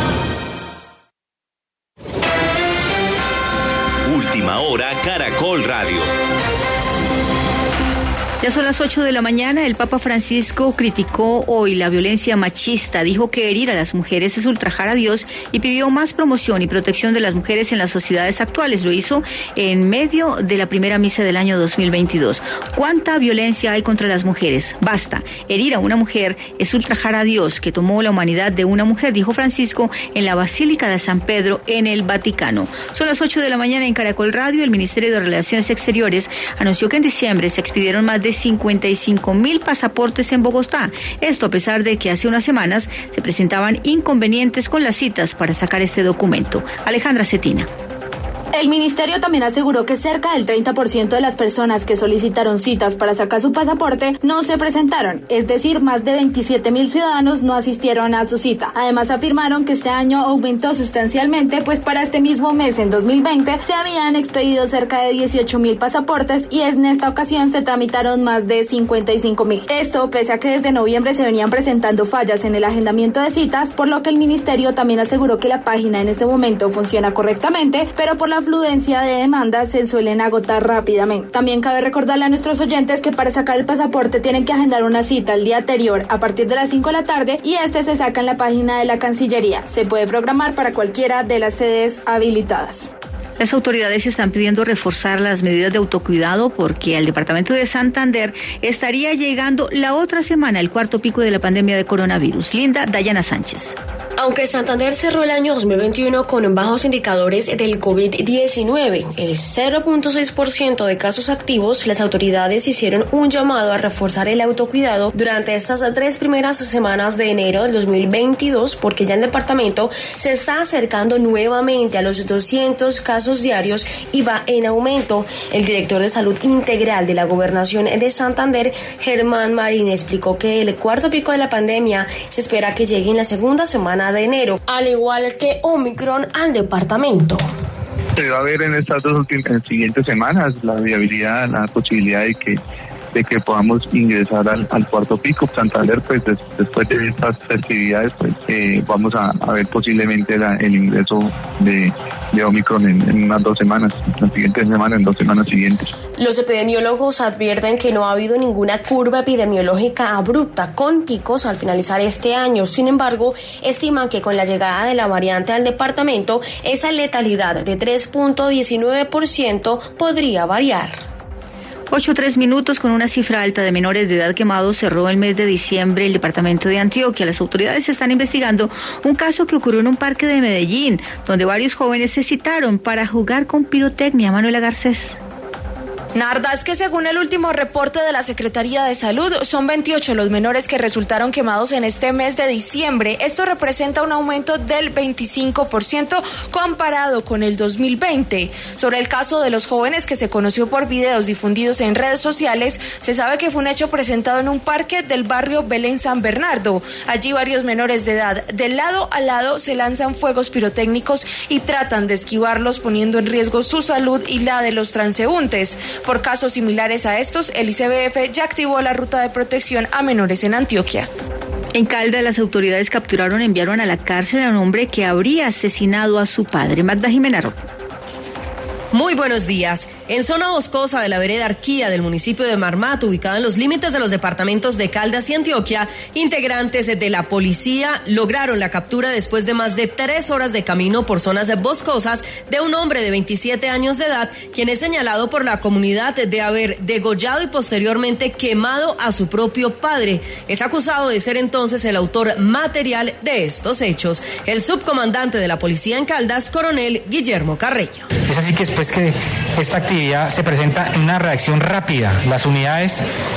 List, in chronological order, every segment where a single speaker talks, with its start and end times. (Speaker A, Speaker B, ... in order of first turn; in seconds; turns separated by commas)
Speaker A: 4.0-6.1, Speaker B: 8.4-47.7, Speaker C: 48.5-92.9, Speaker B: 93.4-103.8, Speaker D: 104.2-137.5, Speaker E: 138.1-142.6, Speaker E: 143.1-155.9, Speaker D: 156.2-171.0, Speaker B: 171.9-185.2, Speaker F: 186.1-221.1, Speaker B: 221.7-227.6, Speaker G: 228.9-258.1, Speaker H: 258.3-263.0